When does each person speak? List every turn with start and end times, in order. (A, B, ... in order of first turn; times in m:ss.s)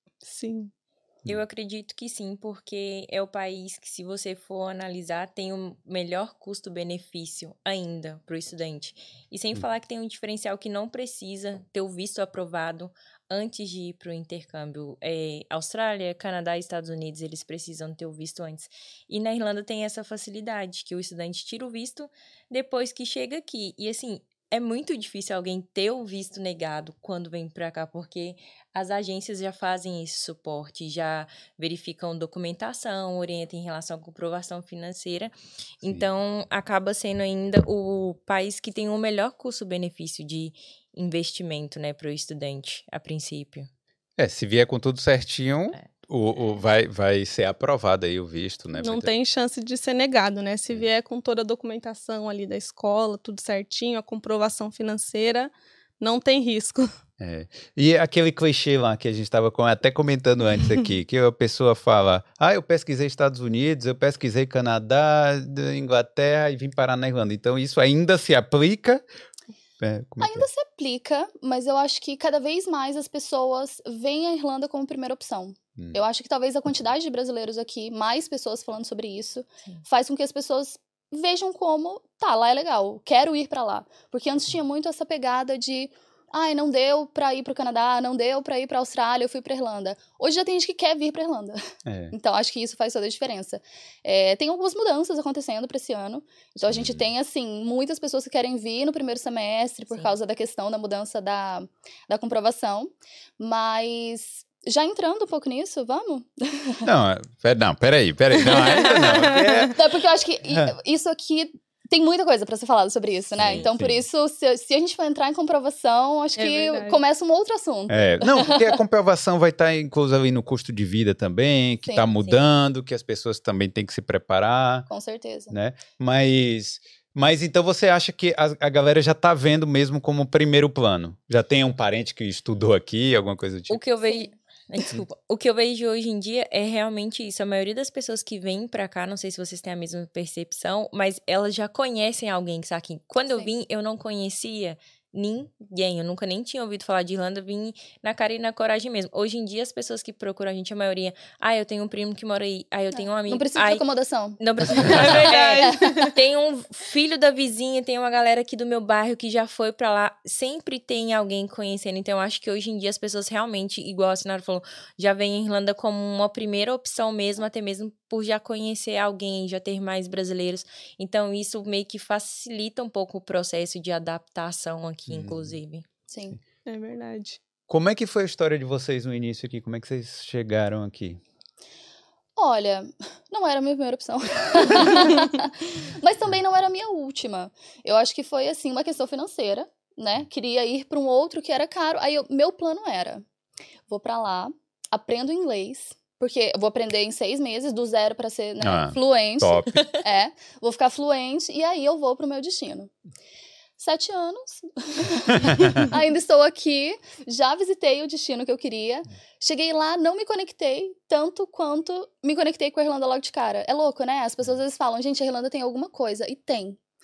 0:00.2-0:00.7 A
0:01.2-0:43.7 B
0:44.2-0:49.1 C
0:48.7-0:56.9 A
0:57.2-1:09.0 C
1:09.8-1:10.4 C
1:10.2-1:31.6 D
1:31.8-1:32.1 C
1:32.1-1:46.8 D
1:36.6-1:37.1 C
1:46.8-1:49.7 C
1:48.4-1:49.7 A
1:49.7-1:58.8 D
1:50.5-1:50.7 C
1:53.4-1:54.0 C
1:56.4-1:57.0 A
1:57.9-2:04.9 C
2:01.8-2:02.3 D
2:04.9-2:05.5 D
2:05.5-2:13.8 C
2:13.7-2:33.9 B
2:14.0-2:14.3 D
2:32.9-2:34.4 D
2:34.4-2:55.8 B
2:34.9-2:35.8 A
2:34.9-2:36.1 D
2:55.1-2:55.6 C
2:56.1-2:56.4 D
2:56.6-2:57.4 A
2:57.7-3:01.2 C
3:02.4-3:13.2 D
3:13.9-3:22.9 D
3:18.6-3:19.7 C
3:23.8-3:36.8 D